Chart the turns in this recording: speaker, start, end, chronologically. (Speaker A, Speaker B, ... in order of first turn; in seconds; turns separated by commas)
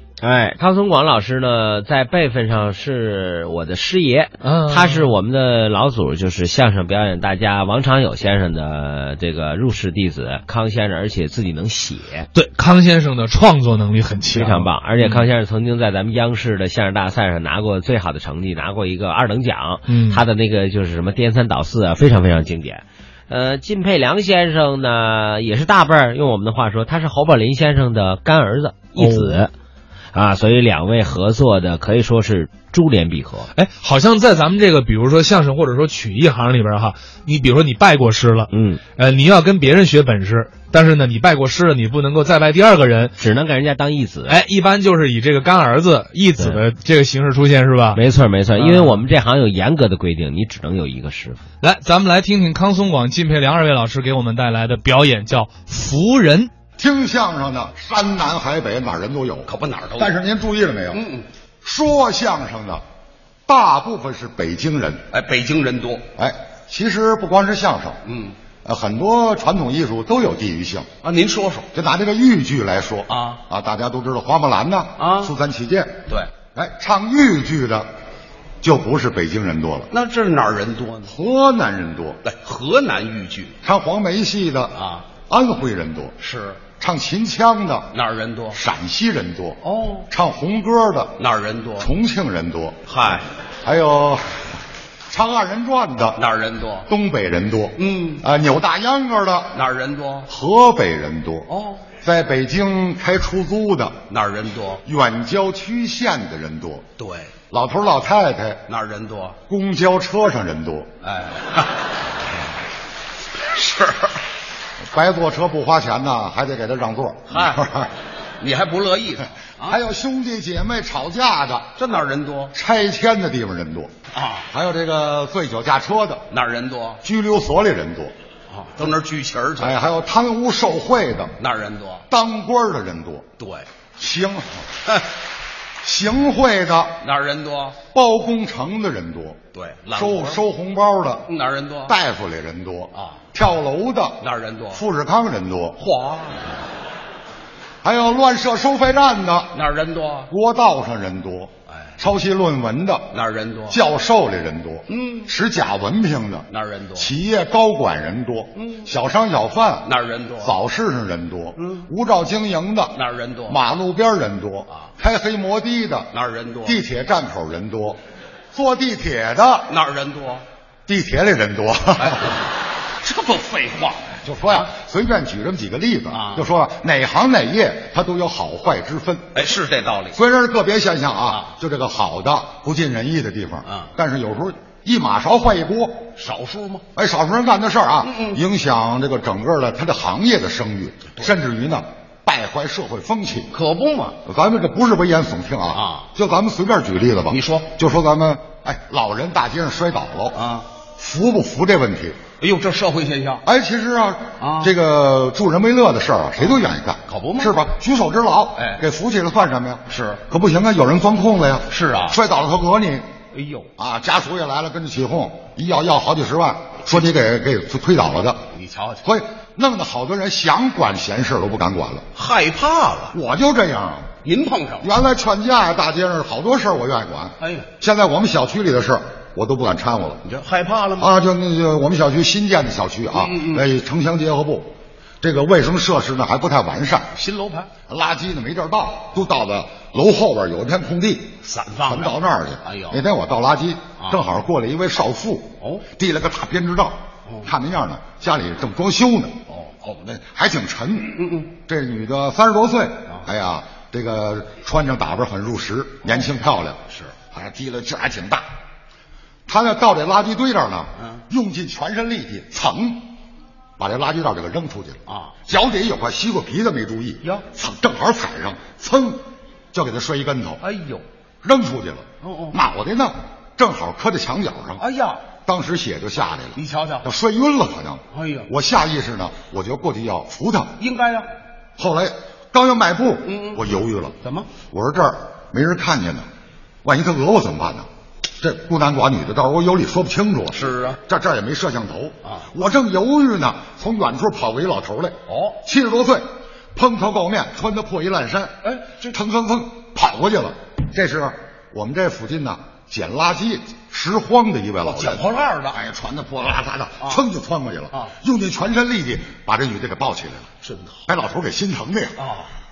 Speaker A: 0.2-12.3, Speaker B: 4.4-5.1, Speaker B: 12.3-15.3, Speaker A: 14.3-29.5, Speaker B: 19.9-20.2, Speaker B: 29.0-29.4, Speaker A: 30.1-33.5, Speaker B: 33.5-43.2, Speaker A: 38.5-38.8, Speaker A: 43.2-44.4, Speaker B: 44.3-48.0, Speaker A: 46.4-46.6, Speaker A: 48.0-51.4, Speaker B: 48.5-49.0, Speaker B: 51.6-56.5, Speaker C: 56.8-61.1, Speaker D: 59.5-60.1, Speaker D: 60.9-61.3, Speaker C: 61.6-62.8, Speaker C: 63.5-65.1, Speaker D: 65.1-66.0, Speaker C: 66.2-68.0, Speaker D: 68.1-68.4, Speaker C: 68.6-70.9, Speaker D: 71.0-71.7, Speaker C: 71.7-77.9, Speaker D: 73.1-73.4, Speaker D: 75.0-75.3, Speaker C: 78.6-79.9, Speaker D: 79.9-81.1, Speaker C: 81.1-82.2, Speaker D: 82.2-83.5, Speaker C: 83.6-86.2, Speaker D: 84.8-85.1, Speaker D: 86.2-86.7, Speaker C: 86.8-87.9, Speaker D: 87.9-88.6, Speaker C: 88.5-91.2, Speaker D: 89.6-90.1, Speaker D: 91.2-91.9, Speaker C: 91.8-92.8, Speaker D: 92.9-93.2, Speaker C: 93.6-94.5, Speaker C: 95.1-96.2, Speaker D: 96.2-96.9, Speaker C: 96.9-99.6, Speaker D: 97.8-98.2, Speaker D: 99.5-100.3, Speaker C: 100.3-101.5, Speaker D: 101.5-101.9, Speaker C: 102.0-104.0, Speaker D: 104.1-104.8, Speaker C: 104.8-106.9, Speaker D: 107.0-107.3, Speaker C: 107.5-108.7, Speaker D: 108.7-109.4, Speaker C: 109.5-110.9, Speaker D: 111.0-111.7, Speaker D: 113.4-114.1, Speaker C: 114.9-117.9, Speaker D: 117.3-117.6, Speaker D: 118.4-119.8, Speaker C: 119.6-121.7, Speaker D: 121.8-122.5, Speaker C: 122.5-123.9, Speaker D: 124.1-124.5, Speaker C: 124.5-126.2, Speaker D: 126.3-127.0, Speaker C: 127.0-128.1, Speaker D: 128.5-129.7, Speaker C: 129.6-131.4, Speaker D: 131.4-132.1, Speaker C: 132.1-133.3, Speaker D: 133.4-133.7, Speaker C: 134.0-134.7, Speaker C: 135.8-137.0, Speaker D: 137.0-137.8, Speaker C: 137.9-139.4, Speaker D: 139.5-140.4, Speaker C: 139.9-141.3, Speaker D: 141.3-141.9, Speaker C: 141.9-145.8, Speaker D: 144.2-144.8, Speaker D: 145.8-146.6, Speaker C: 147.8-149.6, Speaker D: 149.5-150.3, Speaker C: 150.3-153.2, Speaker D: 153.1-153.8, Speaker C: 153.7-166.1, Speaker D: 154.9-155.3, Speaker D: 156.5-157.1, Speaker D: 158.6-158.9, Speaker D: 159.8-160.5, Speaker D: 162.9-163.6, Speaker D: 166.1-166.8, Speaker C: 166.6-168.0, Speaker C: 168.5-169.7, Speaker D: 169.7-170.4, Speaker C: 170.9-172.4, Speaker D: 173.0-174.7, Speaker C: 174.1-179.5, Speaker D: 176.1-176.4, Speaker D: 179.3-180.2, Speaker C: 180.1-186.1, Speaker D: 186.2-186.8, Speaker C: 186.9-193.5, Speaker D: 188.1-188.4, Speaker D: 193.5-194.2, Speaker C: 194.2-200.4, Speaker D: 195.8-196.1, Speaker D: 197.3-197.7, Speaker D: 200.3-200.7, Speaker C: 201.0-202.2, Speaker D: 202.4-203.4, Speaker C: 203.4-213.1, Speaker D: 204.4-204.7, Speaker D: 207.1-207.5, Speaker D: 209.9-210.2, Speaker D: 211.7-212.2, Speaker D: 213.3-213.7, Speaker C: 213.8-218.5, Speaker D: 218.5-219.0, Speaker C: 219.0-222.1, Speaker D: 222.2-223.2, Speaker C: 223.1-224.1, Speaker D: 224.2-224.9, Speaker C: 224.8-230.2, Speaker D: 227.4-227.7, Speaker D: 230.2-231.1, Speaker C: 231.0-237.1, Speaker D: 233.2-233.6, Speaker D: 237.2-237.7, Speaker C: 237.9-249.4, Speaker D: 241.4-242.1, Speaker D: 242.7-243.0, Speaker D: 249.5-250.1, Speaker C: 250.1-258.4, Speaker D: 251.2-251.5, Speaker C: 259.5-263.1, Speaker C: 263.8-270.6, Speaker D: 265.1-265.4, Speaker D: 270.6-271.1, Speaker C: 271.4-274.8, Speaker D: 272.2-272.6, Speaker D: 274.8-275.3, Speaker C: 275.4-280.8, Speaker D: 276.6-277.1, Speaker D: 278.1-278.5, Speaker D: 280.8-281.3, Speaker C: 281.8-284.2, Speaker D: 283.3-283.6, Speaker D: 284.2-284.5, Speaker C: 284.7-286.3, Speaker C: 286.8-287.9, Speaker C: 288.4-310.5, Speaker D: 290.6-291.0, Speaker D: 295.3-295.6, Speaker D: 298.6-299.1, Speaker D: 304.9-305.8, Speaker D: 310.7-310.9, Speaker C: 311.1-312.2, Speaker D: 312.2-312.5